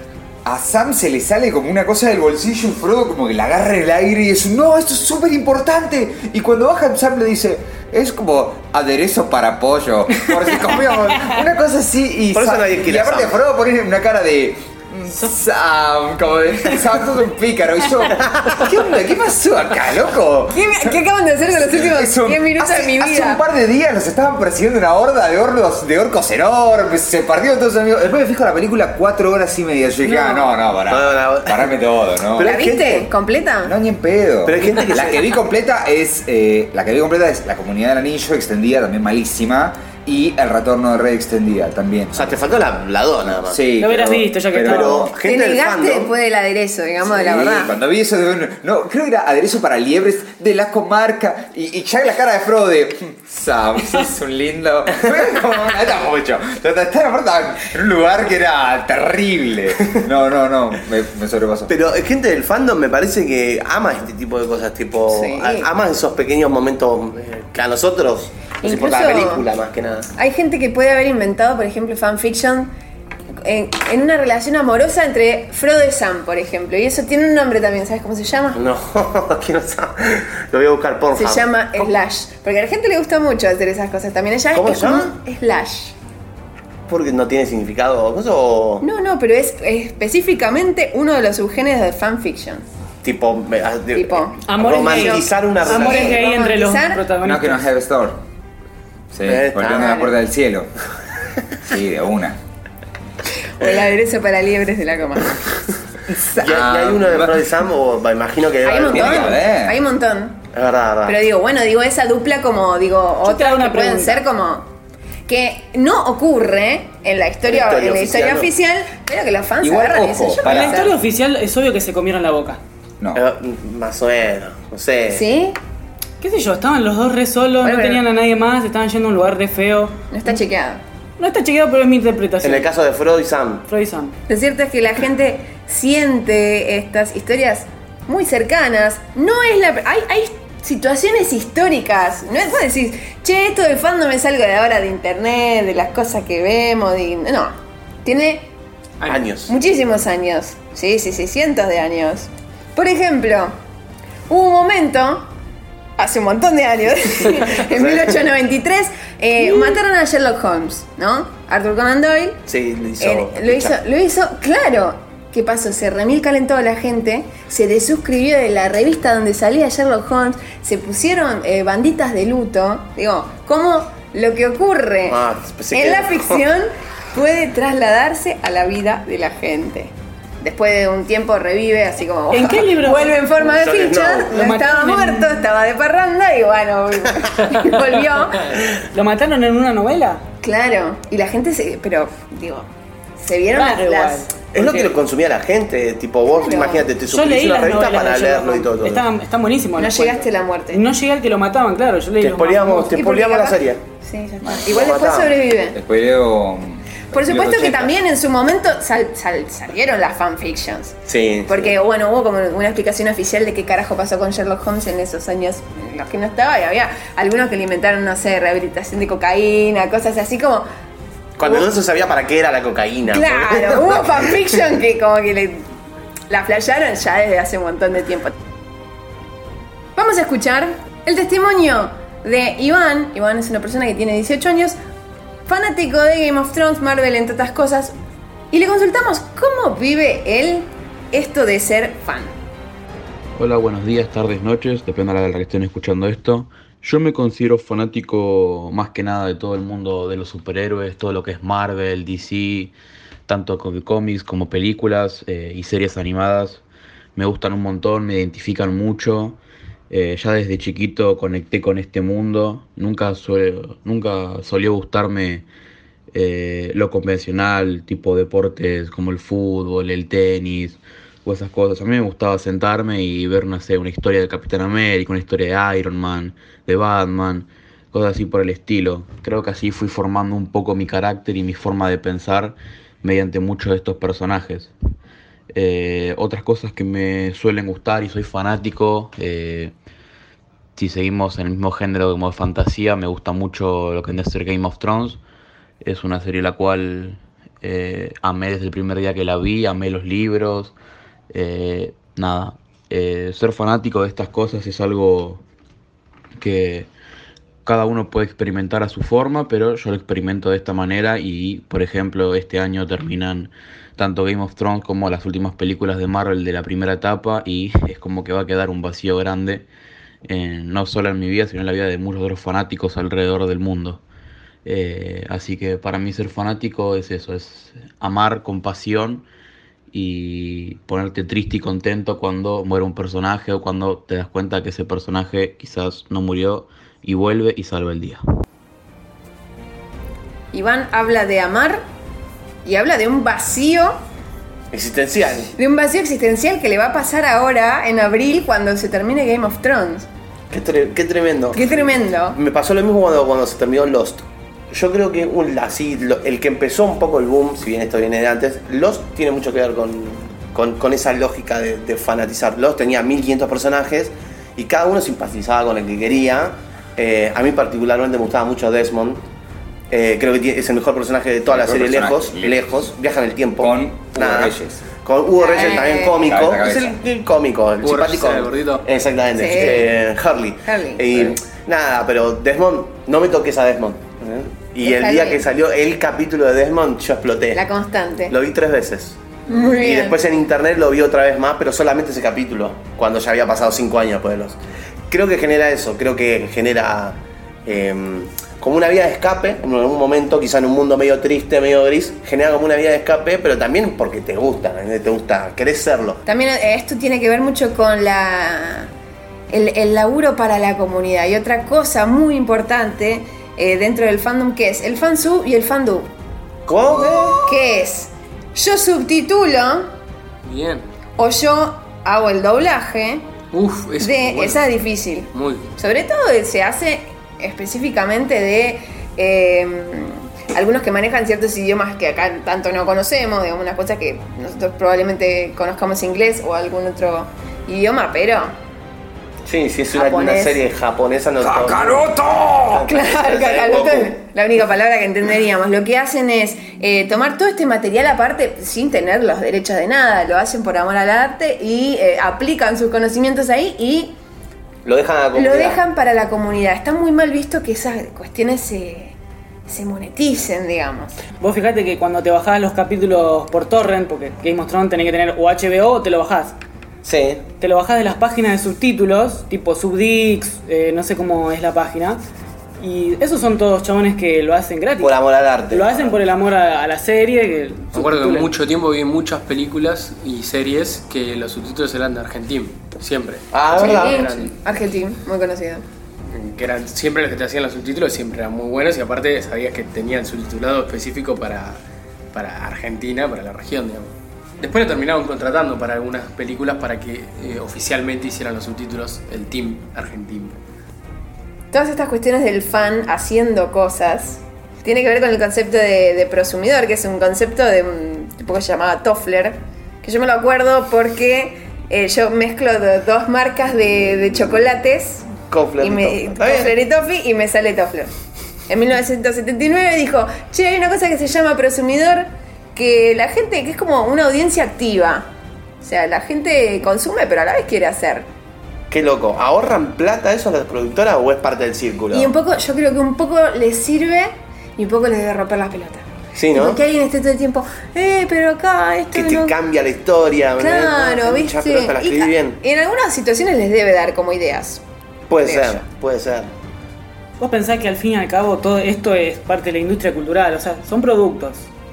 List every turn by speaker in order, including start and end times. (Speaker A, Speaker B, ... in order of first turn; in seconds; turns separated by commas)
Speaker A: 0.4-21.0, Speaker B: 10.2-11.3, Speaker C: 12.3-13.4, Speaker C: 18.2-18.6, Speaker D: 20.5-23.4, Speaker A: 21.5-32.5, Speaker C: 30.9-31.7, Speaker C: 32.4-33.1, Speaker D: 32.4-33.7, Speaker A: 33.6-42.3, Speaker C: 34.4-35.3, Speaker C: 42.1-43.6, Speaker A: 43.3-45.1, Speaker B: 43.8-45.1, Speaker C: 44.6-46.1, Speaker D: 45.2-47.8, Speaker A: 47.0-61.7, Speaker C: 61.7-70.1, Speaker D: 65.1-65.7, Speaker D: 68.6-69.5, Speaker D: 70.2-72.7, Speaker D: 73.4-78.6, Speaker C: 78.5-81.9, Speaker D: 81.2-85.9, Speaker C: 84.5-85.1, Speaker C: 86.9-88.8, Speaker D: 88.8-92.6, Speaker C: 93.0-96.3, Speaker D: 93.9-97.0, Speaker B: 94.5-97.7, Speaker A: 97.2-98.2, Speaker A: 99.1-100.7, Speaker C: 99.2-100.1, Speaker D: 99.7-100.1, Speaker A: 101.6-102.4, Speaker D: 103.6-105.4, Speaker A: 106.1-107.6, Speaker C: 106.3-109.4, Speaker D: 108.6-110.4, Speaker A: 108.9-109.8, Speaker C: 110.5-111.2, Speaker D: 111.0-114.7, Speaker B: 113.2-114.2, Speaker D: 115.3-120.9, Speaker C: 117.5-118.5, Speaker A: 119.6-120.9, Speaker B: 120.4-122.6, Speaker C: 123.1-125.2, Speaker D: 125.1-125.6, Speaker B: 126.2-130.4, Speaker D: 127.6-128.0, Speaker D: 130.1-130.8, Speaker B: 131.2-132.7, Speaker C: 132.4-133.7, Speaker B: 133.7-134.1, Speaker D: 134.3-148.5, Speaker E: 149.0-149.2, Speaker C: 149.1-149.6, Speaker D: 149.5-153.5, Speaker D: 154.3-155.3, Speaker D: 156.0-162.4, Speaker C: 157.6-158.1, Speaker C: 162.5-163.8, Speaker D: 163.0-188.6, Speaker C: 175.1-176.4, Speaker B: 182.3-183.2, Speaker C: 183.4-184.3, Speaker B: 184.3-185.3, Speaker B: 188.9-190.2, Speaker D: 190.4-194.3, Speaker B: 193.5-194.9, Speaker C: 194.5-199.0, Speaker D: 196.4-196.9, Speaker B: 197.1-203.0, Speaker D: 199.8-200.8, Speaker C: 202.2-203.8, Speaker D: 202.9-205.8, Speaker A: 204.4-204.7, Speaker C: 204.6-205.3, Speaker A: 205.7-207.9, Speaker D: 207.1-210.9, Speaker C: 211.1-211.7, Speaker D: 211.5-220.7, Speaker C: 221.4-223.9, Speaker D: 223.1-225.7, Speaker D: 226.3-228.3, Speaker D: 229.9-234.8, Speaker D: 235.5-237.9, Speaker D: 238.5-242.3, Speaker F: 243.3-252.7, Speaker F: 253.3-256.6, Speaker F: 257.1-259.4, Speaker F: 259.9-265.4, Speaker F: 266.1-284.7, Speaker F: 285.5-289.7, Speaker F: 290.8-295.2, Speaker F: 295.8-300.7, Speaker F: 301.3-305.4, Speaker F: 306.4-306.9, Speaker F: 307.6-319.7, Speaker F: 320.2-324.0, Speaker F: 324.6-329.2, Speaker F: 329.9-338.2, Speaker D: 340.5-341.8, Speaker D: 342.6-344.0, Speaker C: 344.7-345.5, Speaker D: 345.6-350.1, Speaker C: 350.5-369.2, Speaker D: 351.5-352.4, Speaker C: 369.9-387.6, Speaker A: 371.5-372.9, Speaker A: 373.6-374.8, Speaker D: 375.4-376.3, Speaker A: 376.1-377.0, Speaker E: 377.8-378.8, Speaker D: 379.4-380.0, Speaker D: 380.6-381.4, Speaker D: 384.8-385.4, Speaker D: 387.5-388.3, Speaker C: 388.3-394.6, Speaker D: 389.5-390.2, Speaker C: 395.1-406.2, Speaker D: 406.2-408.9, Speaker D: 409.5-416.1, Speaker C: 416.6-417.5, Speaker D: 417.4-419.9, Speaker E: 420.4-420.9, Speaker D: 421.2-423.3, Speaker E: 423.5-424.7, Speaker D: 424.0-438.5, Speaker E: 425.3-425.7, Speaker C: 439.4-442.1, Speaker D: 439.9-440.6, Speaker A: 441.4-442.9, Speaker C: 442.7-444.1, Speaker D: 442.9-454.1, Speaker C: 454.8-455.8, Speaker D: 455.3-459.1, Speaker D: 459.7-461.2, Speaker B: 461.4-466.6, Speaker C: 467.0-467.4, Speaker B: 467.6-472.2, Speaker B: 472.8-475.1, Speaker C: 475.0-476.1, Speaker B: 475.7-478.5, Speaker E: 477.9-484.5, Speaker C: 483.5-484.4, Speaker D: 483.8-485.8, Speaker E: 486.3-491.8, Speaker E: 492.3-500.6, Speaker D: 501.7-518.1, Speaker C: 515.5-516.7, Speaker D: 518.7-525.3, Speaker D: 525.8-528.2, Speaker C: 528.9-532.3, Speaker D: 532.1-539.6, Speaker C: 536.4-536.8, Speaker C: 539.1-542.6, Speaker D: 540.6-544.8, Speaker C: 545.3-546.5, Speaker D: 545.4-545.8, Speaker B: 547.4-551.7